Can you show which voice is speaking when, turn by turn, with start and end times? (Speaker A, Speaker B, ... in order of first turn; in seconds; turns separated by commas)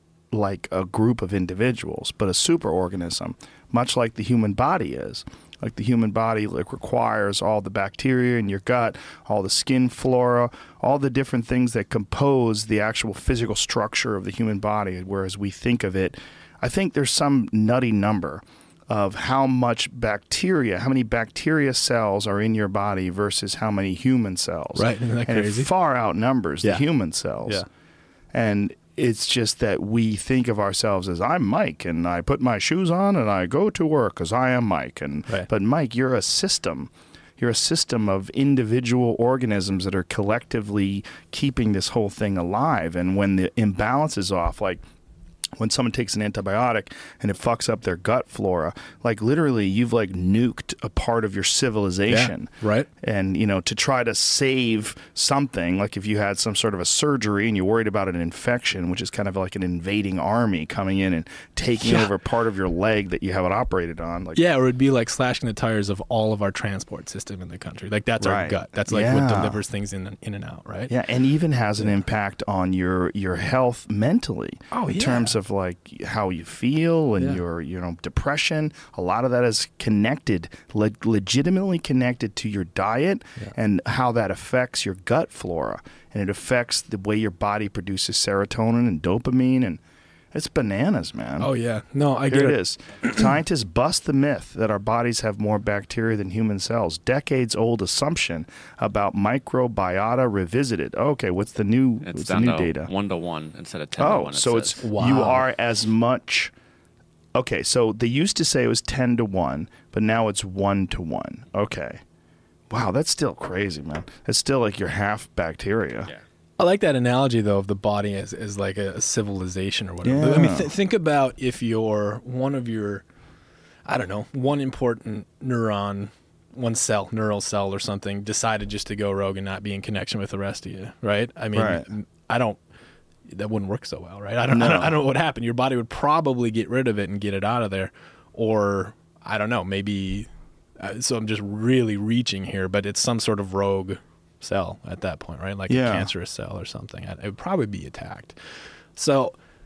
Speaker A: 0.3-27.6, Speaker B: 24.8-25.7, Speaker A: 28.3-44.8, Speaker A: 45.6-64.4, Speaker B: 52.1-52.9, Speaker B: 61.8-62.1, Speaker B: 64.3-70.9, Speaker A: 68.2-69.6, Speaker A: 70.9-89.8, Speaker B: 74.7-75.3, Speaker A: 90.3-91.5, Speaker B: 91.4-93.3, Speaker A: 92.3-102.9, Speaker C: 102.0-104.9, Speaker A: 104.0-106.5, Speaker B: 104.8-105.4, Speaker A: 107.3-112.0, Speaker A: 112.7-116.1, Speaker B: 116.6-123.0, Speaker A: 120.0-120.7, Speaker B: 123.9-132.6, Speaker A: 131.5-131.9, Speaker B: 133.3-148.4, Speaker A: 134.5-135.0, Speaker A: 145.7-146.1, Speaker B: 149.0-149.4